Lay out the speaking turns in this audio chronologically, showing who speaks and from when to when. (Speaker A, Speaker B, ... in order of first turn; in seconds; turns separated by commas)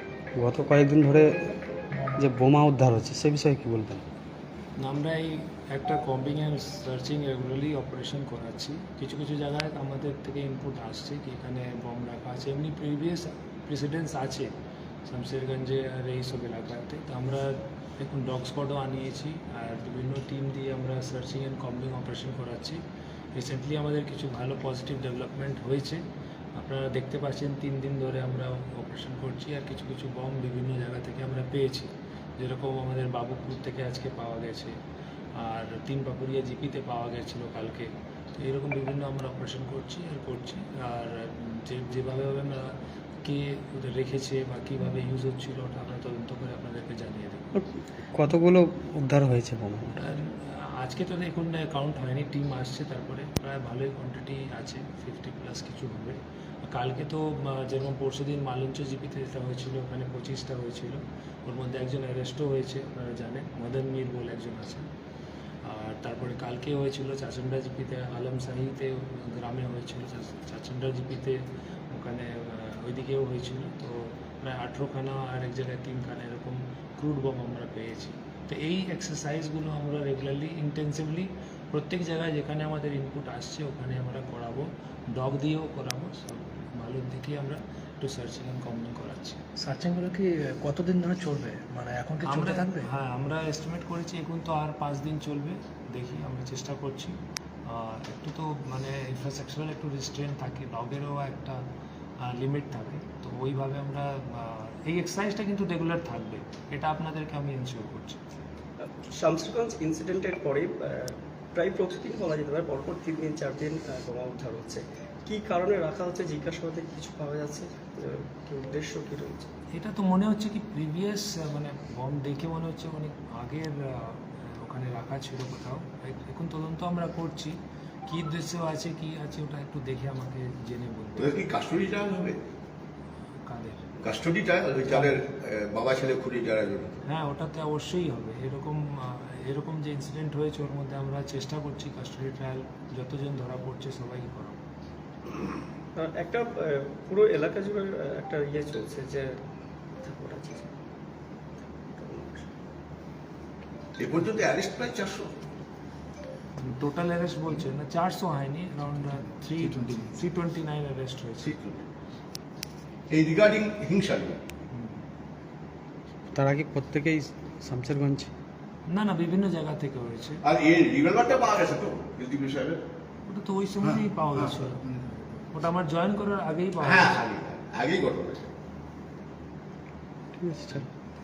Speaker A: 0.3-1.4, Speaker A: 2.1-4.0, Speaker B: 4.8-14.5, Speaker B: 15.1-22.8, Speaker B: 23.3-26.0, Speaker B: 26.6-34.7, Speaker B: 35.4-42.7, Speaker B: 43.2-47.4, Speaker A: 47.5-50.0, Speaker B: 50.0-64.9, Speaker B: 65.6-71.4, Speaker B: 71.9-89.4, Speaker C: 89.6-92.9, Speaker B: 92.2-101.6, Speaker B: 102.2-108.2, Speaker D: 108.8-119.5, Speaker B: 119.7-127.5, Speaker B: 128.1-131.5, Speaker E: 131.2-132.4, Speaker B: 133.4-134.0, Speaker E: 134.0-137.1, Speaker B: 134.9-135.2, Speaker B: 137.1-144.6, Speaker D: 145.9-149.4, Speaker D: 150.0-150.7, Speaker D: 151.9-152.5, Speaker E: 154.0-155.3, Speaker B: 156.6-161.5, Speaker E: 161.4-161.8, Speaker E: 163.1-164.4, Speaker B: 164.7-165.0, Speaker A: 166.3-168.3, Speaker B: 168.9-170.4, Speaker E: 170.4-172.8, Speaker B: 173.2-175.0, Speaker B: 175.5-177.3, Speaker E: 176.8-178.5, Speaker A: 180.4-180.9